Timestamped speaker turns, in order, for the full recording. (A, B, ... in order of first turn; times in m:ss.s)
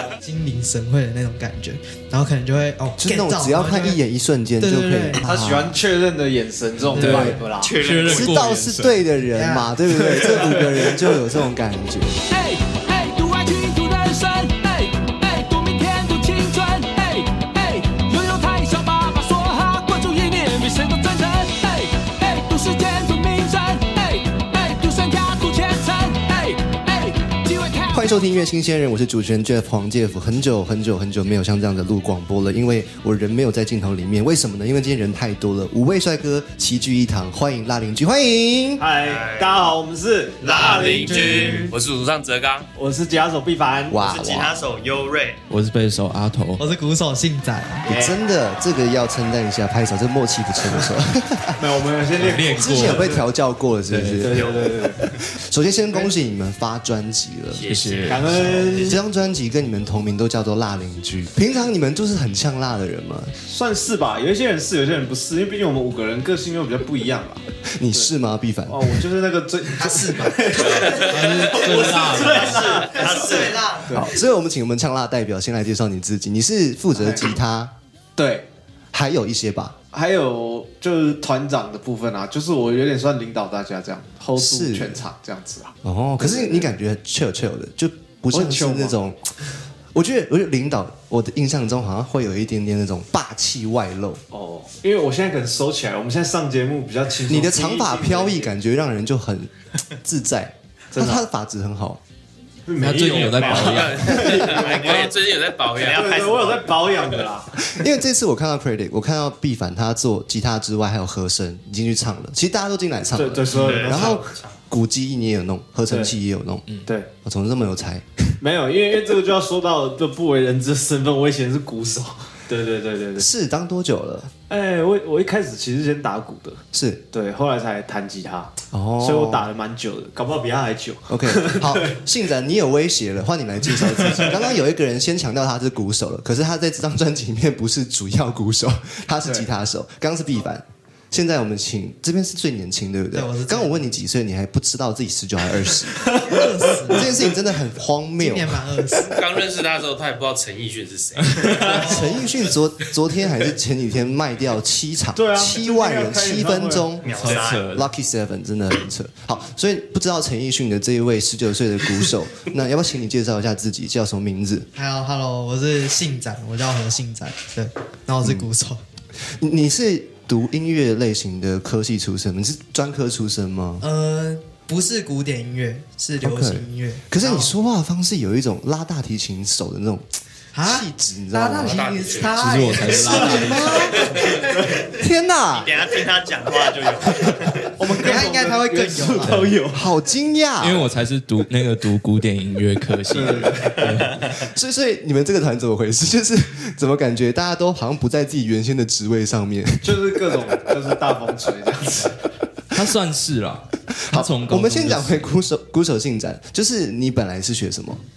0:00.2-0:04.0 A
0:03.0-0:05.7 B
0:04.6-0:05.2 A
0:05.2-0:07.7 C
0:07.0-0:07.4 A
0:07.0-0:09.0 D
0:07.6-0:08.5 E
0:08.1-0:12.2 B
0:09.3-0:09.8 A
0:09.9-0:11.2 C
0:12.3-0:28.2 F
0:27.9-0:38.8 B
0:38.8-0:41.7 C
0:39.0-0:39.7 E
0:40.4-0:41.2 E
0:40.5-0:42.7 G
0:41.1-0:41.7 A
0:42.8-0:44.0 C
0:43.9-0:44.6 B
0:44.0-0:45.4 E
0:45.5-0:46.6 D
0:46.6-0:47.9 A
0:47.8-0:48.2 C
0:47.9-0:51.6 B
0:51.6-0:53.2 C
0:52.2-0:53.2 D
0:52.6-0:54.4 B
0:53.9-0:54.3 D
0:54.2-0:55.0 C
0:54.4-0:55.1 E
0:55.3-0:57.7 B
0:57.5-0:59.0 G
0:57.7-0:58.5 D
0:58.0-0:59.0 C
0:58.7-1:03.3 B
1:03.4-1:08.1 C
1:07.6-1:09.1 B
1:08.7-1:10.9 C
1:09.8-1:11.2 A
1:10.6-1:11.5 G
1:10.9-1:12.6 D
1:11.5-1:13.9 E
1:11.5-1:14.2 C
1:12.9-1:13.9 A
1:13.9-1:17.7 B
1:17.0-1:17.3 C
1:18.2-1:18.5 C
1:18.9-1:19.8 B
1:19.9-1:26.7 C
1:24.4-1:25.0 B
1:25.8-1:29.4 B
1:28.3-1:29.0 C
1:29.9-1:34.2 B
1:34.3-1:38.6 C
1:37.3-1:42.0 B
1:40.9-1:41.2 C
1:42.7-1:45.1 C
1:42.8-1:44.2 D
1:43.4-1:46.2 G
1:44.2-1:45.2 E
1:45.7-1:46.9 E
1:45.8-1:47.5 C
1:47.6-1:56.6 B
1:53.2-1:54.2 C
1:53.5-1:54.6 E
1:55.9-1:56.2 C
1:57.2-1:58.4 B
1:58.4-2:03.3 C
2:03.2-2:04.3 B
2:04.5-2:06.6 C
2:06.7-2:07.0 B
2:07.1-2:12.0 C
2:08.7-2:09.5 B
2:11.1-2:26.0 B
2:14.0-2:14.2 C
2:23.1-2:23.9 A
2:26.1-2:27.0 C
2:26.2-2:27.2 A
2:26.9-2:28.7 B
2:28.2-2:29.2 A
2:29.0-2:32.0 G
2:31.2-2:31.5 D
2:31.7-2:44.7 B
2:35.2-2:36.9 C
2:37.0-2:37.7 E
2:37.0-2:37.9 D
2:44.8-2:48.8 A
2:49.2-2:53.8 B
2:53.8-2:57.5 A
2:56.2-3:01.8 B
3:00.5-3:03.5 A
3:01.5-3:02.9 G
3:02.3-3:03.8 D
3:02.9-3:04.1 B
3:04.2-3:04.9 E
3:04.2-3:04.9 C
3:04.9-3:05.8 B
3:05.5-3:07.7 E
3:07.8-3:09.8 C
3:07.8-3:09.6 A
3:09.7-3:10.9 B
3:10.6-3:14.2 D
3:13.1-3:13.8 C
3:14.3-3:20.6 B
3:19.8-3:22.2 C
3:22.7-3:25.3 D
3:24.1-3:28.0 B